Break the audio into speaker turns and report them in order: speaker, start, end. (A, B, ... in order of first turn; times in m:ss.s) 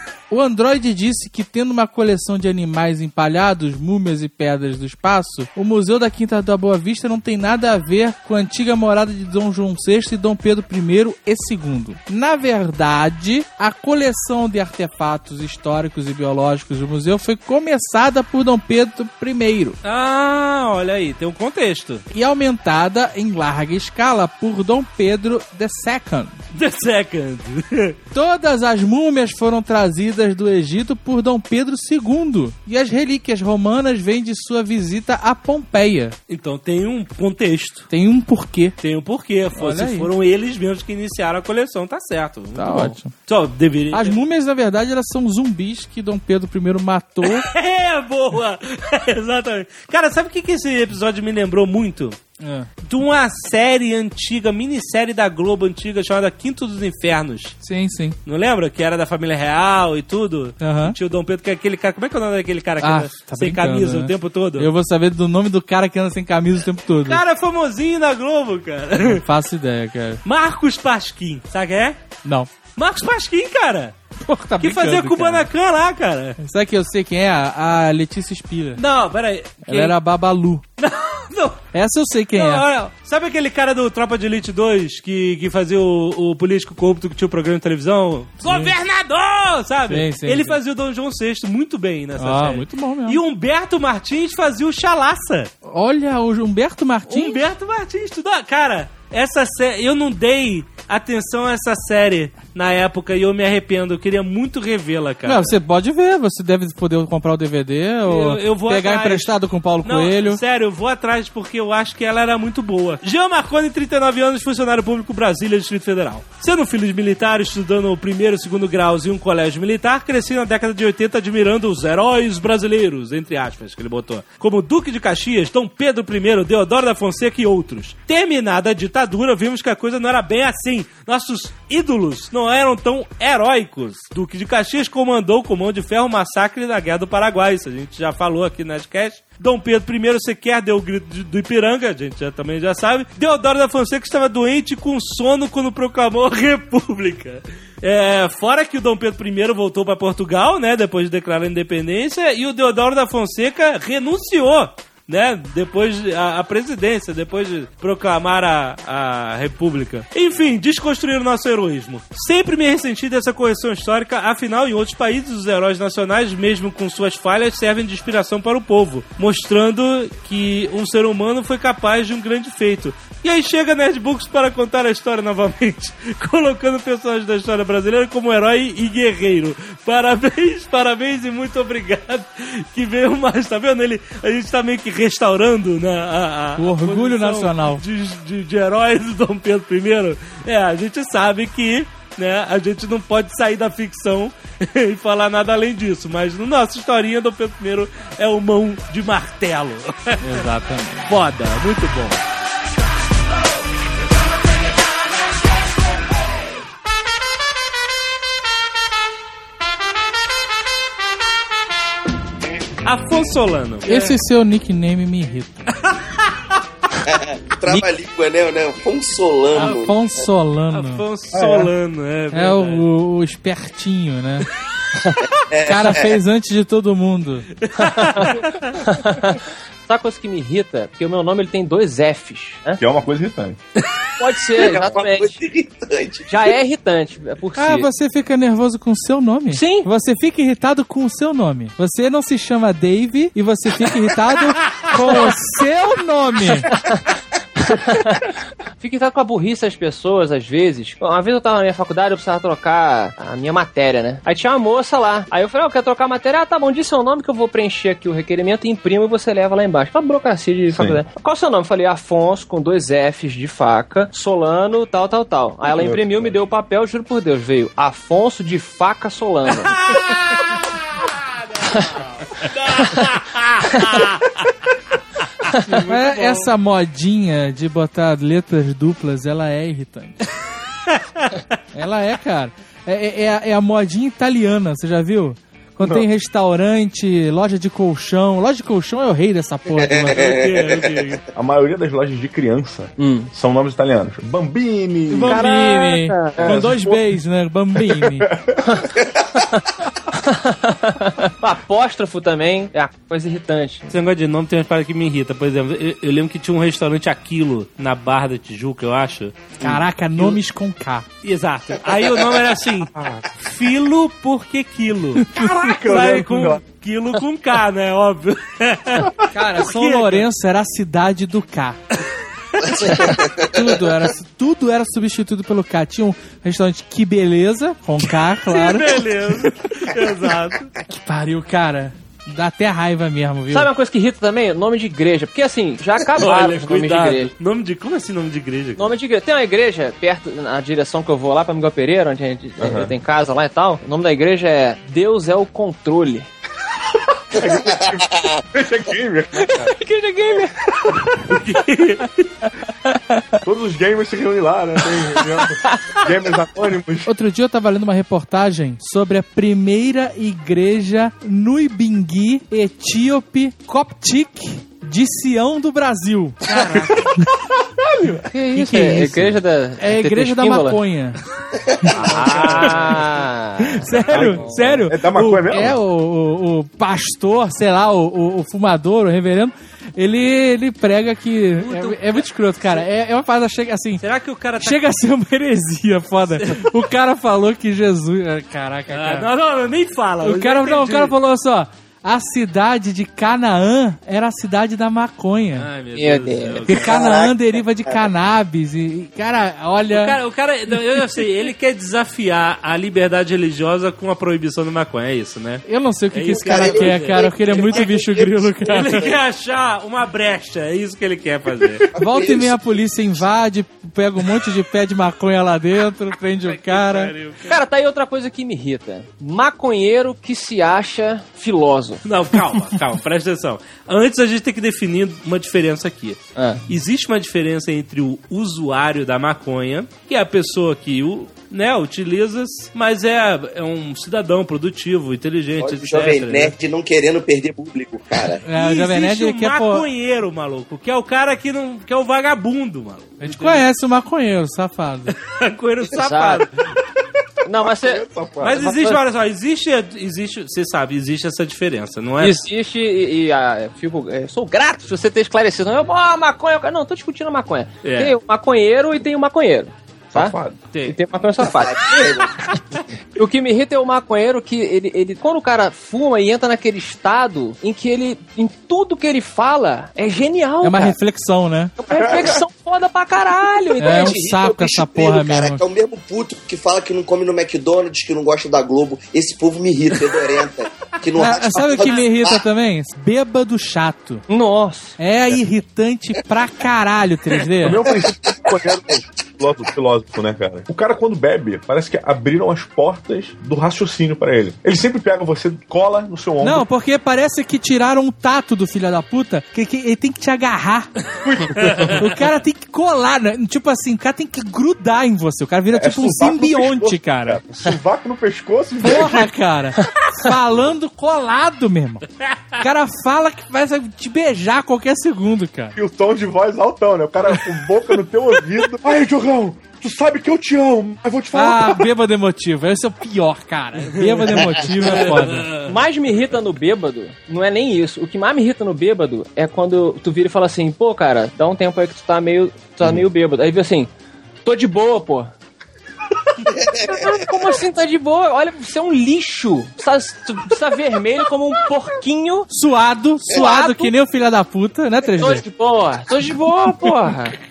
0:00.3-0:19.8 A
0:19.8-0:22.0 B
0:22.1-0:26.3 A
0:26.5-0:28.0 B
0:28.1-0:36.1 A
0:36.3-0:37.9 B
0:37.9-0:38.8 A
0:38.8-0:44.2 B
0:39.6-0:40.1 A
0:42.6-0:43.1 A
0:43.9-0:47.5 A
0:47.2-0:52.2 B
0:52.4-0:52.7 A
0:52.8-0:57.6 B
0:57.6-0:58.2 A
0:58.2-1:04.7 B
1:00.6-1:01.0 A
1:02.8-1:07.2 A
1:07.0-1:09.2 B
1:09.0-1:10.2 A
1:10.2-1:12.0 B
1:12.2-1:12.5 A
1:12.8-1:13.9 B
1:14.2-1:15.5 A
1:14.6-1:16.4 B
1:16.4-1:18.8 A
1:18.8-1:20.0 B
1:19.6-1:20.6 A
1:20.8-1:21.6 B
1:21.7-1:22.7 A
1:22.3-1:35.5 B
1:28.4-1:28.7 A
1:29.9-1:30.6 A
1:32.2-1:33.2 A
1:35.6-1:37.4 A
1:37.1-1:45.5 B
1:45.2-1:50.4 A
1:48.0-3:20.4 B
3:06.6-3:07.8 A
3:20.2-3:21.1 A
3:21.0-3:22.2 B
3:32.8-3:34.2 B
3:33.8-3:35.7 A
3:37.0-3:40.1 C
3:39.5-3:41.0 A
3:40.7-3:42.8 B
3:41.4-3:41.7 D
3:42.3-3:44.5 A
3:45.4-3:46.1 C
3:45.6-3:47.5 A
3:47.6-3:48.8 B
3:47.8-3:52.8 E
3:52.8-3:53.6 D
3:54.2-3:55.4 E
3:54.6-3:56.5 C
3:56.3-3:57.9 E
3:57.6-4:06.7 A
3:59.5-3:59.9 E
4:06.7-4:07.0 E
4:07.6-4:29.8 E
4:20.7-4:21.0 D
4:25.7-4:26.4 D
4:29.8-4:30.4 B
4:32.4-4:34.2 B
4:35.6-4:36.4 B
4:35.8-4:40.2 A
4:40.9-4:41.4 B
4:41.7-4:50.4 A
4:49.7-4:51.1 C
4:50.1-4:51.2 B
4:51.3-4:55.6 D
4:53.0-4:53.3 E
4:55.1-4:58.3 A
4:55.2-4:56.5 E
4:56.3-4:57.2 D
4:57.8-4:58.6 D
5:00.1-5:03.9 E
5:03.9-5:09.6 B
5:09.6-5:11.0 A
5:11.2-5:15.3 B
5:12.9-5:13.2 D
5:15.2-5:15.7 A
5:15.3-5:16.6 D
5:15.8-5:20.2 B
5:19.2-5:21.8 A
5:22.7-5:23.5 C
5:23.4-5:29.0 A
5:28.5-5:30.7 B
5:30.9-5:33.7 A
5:33.5-5:37.3 E
5:36.2-5:38.9 B
5:38.8-5:46.3 E
5:42.6-5:42.9 D
5:47.3-5:49.7 D
5:47.4-5:48.4 C
5:49.4-5:50.5 E
5:51.2-5:52.3 B
5:53.4-5:57.1 D
5:54.8-5:56.0 E
5:57.0-6:07.2 A
6:06.6-6:06.9 B
6:08.0-6:11.2 A
6:08.3-6:10.8 E
6:11.5-6:11.9 C
6:11.9-6:14.8 E
6:12.1-6:13.0 B
6:13.6-6:24.0 A
6:14.1-6:15.8 D
6:21.6-6:22.8 B
6:24.0-6:24.8 B
6:24.6-6:29.3 A
6:28.9-6:31.1 B
6:30.2-6:35.7 A
6:35.6-6:37.0 B
6:36.0-6:37.0 E
6:36.7-6:40.2 A
6:36.8-6:37.3 C
6:39.9-6:47.9 B
6:45.6-6:49.0 A
6:46.2-6:49.2 C
6:48.7-6:51.8 B
6:51.9-6:52.8 C
6:52.0-6:57.1 A
6:56.4-6:57.6 B
6:57.4-7:02.0 E
7:02.0-7:16.5 B
7:06.4-7:06.6 E
7:15.6-7:18.4 C
7:18.4-7:19.8 A
7:18.5-7:23.6 B
7:23.2-7:25.1 A
7:25.2-7:26.5 B
7:25.9-7:26.5 E
7:27.4-7:29.0 E
7:27.5-7:28.6 D
7:28.4-7:32.4 B
7:32.2-7:42.2 E
7:37.8-7:38.2 B
7:40.1-7:40.6 D
7:40.7-7:41.0 B
7:41.4-7:42.3 C
7:43.2-7:51.0 E
7:50.6-7:51.7 A
7:51.8-7:54.2 E
7:51.9-7:52.4 D
7:53.8-7:55.6 A
7:53.8-8:02.4 C
8:01.2-8:04.2 A
8:04.3-8:05.0 E
8:05.0-8:07.8 A
8:07.6-8:16.6 D
8:07.8-8:08.5 C
8:16.4-8:20.9 A
8:21.3-8:22.0 D
8:21.5-8:22.0 B
8:21.9-8:27.4 A
8:25.7-8:29.3 D
8:28.8-8:32.0 A
8:32.6-8:35.7 A
8:35.8-8:41.9 D
8:41.3-8:45.5 A
8:44.0-8:45.7 B
8:45.6-8:53.9 E
8:54.4-8:55.3 E
8:56.5-8:57.0 C
8:56.8-9:02.5 E
9:02.5-9:05.4 A
9:03.3-9:03.9 E
9:05.1-9:07.4 E